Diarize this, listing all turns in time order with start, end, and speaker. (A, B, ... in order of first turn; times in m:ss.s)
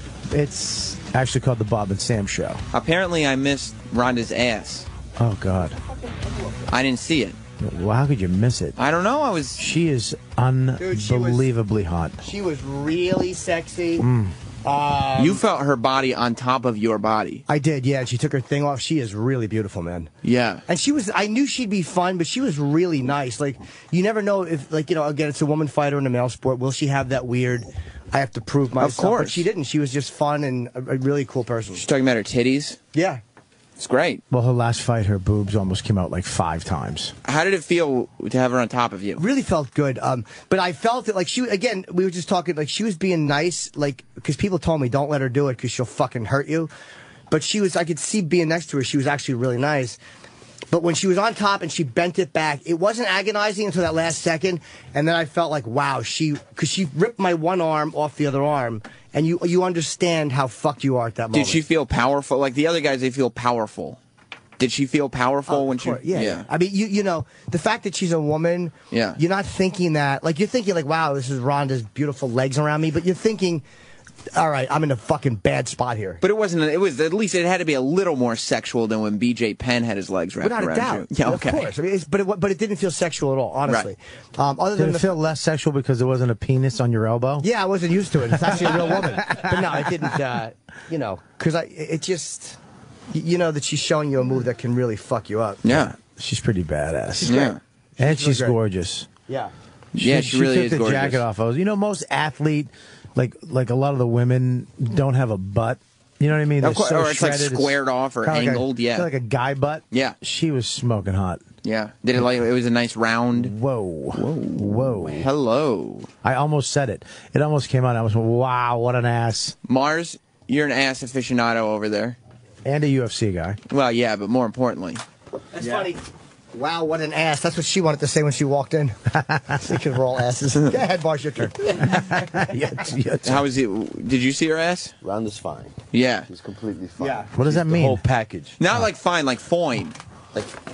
0:00.3-0:02.6 A
0:02.7-0:04.9 B
0:05.2-0:05.8 A
0:06.7-0:07.4 B
0:07.6-0:08.8 A
0:08.8-0:09.6 B
0:09.6-0:12.2 A
0:10.8-0:11.5 C
0:12.2-0:14.0 C
0:14.0-0:14.3 A
0:14.6-0:15.4 C
0:15.2-0:17.4 B
0:17.5-0:20.1 C
0:20.2-0:20.6 B
0:20.7-0:31.8 C
0:28.8-0:29.4 B
0:31.8-0:32.8 B
0:32.9-0:33.2 C
0:33.8-0:34.2 B
0:34.3-0:37.1 A
0:37.2-0:39.2 B
0:39.2-0:46.7 C
0:47.3-0:50.0 C
0:50.7-1:01.6 C
1:01.3-1:04.0 B
1:04.6-1:06.5 B
1:05.5-1:13.6 C
1:08.9-1:09.2 B
1:14.3-1:16.2 C
1:16.2-1:21.7 B
1:20.4-1:25.1 C
1:24.8-1:27.5 A
1:27.4-1:32.6 C
1:29.3-1:29.6 A
1:33.1-1:35.9 C
1:35.6-1:35.9 B
1:36.1-1:37.3 A
1:37.2-1:38.6 C
1:37.2-1:37.6 B
1:38.0-1:39.1 A
1:39.3-1:39.5 C
1:39.9-1:41.2 B
1:40.0-1:51.4 A
1:46.6-1:49.1 B
1:51.6-1:53.5 B
1:53.3-1:55.3 A
1:54.1-1:56.1 B
1:56.2-1:59.6 A
1:59.7-2:02.2 B
2:02.6-2:03.6 A
2:03.7-2:05.0 B
2:05.6-2:09.0 C
2:05.6-2:05.9 D
2:09.3-2:09.6 A
2:09.5-2:12.6 C
2:11.9-2:13.4 A
2:13.2-2:14.9 B
2:15.0-2:18.6 D
2:15.9-2:16.3 B
2:17.0-2:17.3 C
2:17.3-2:18.0 A
2:18.6-2:19.9 B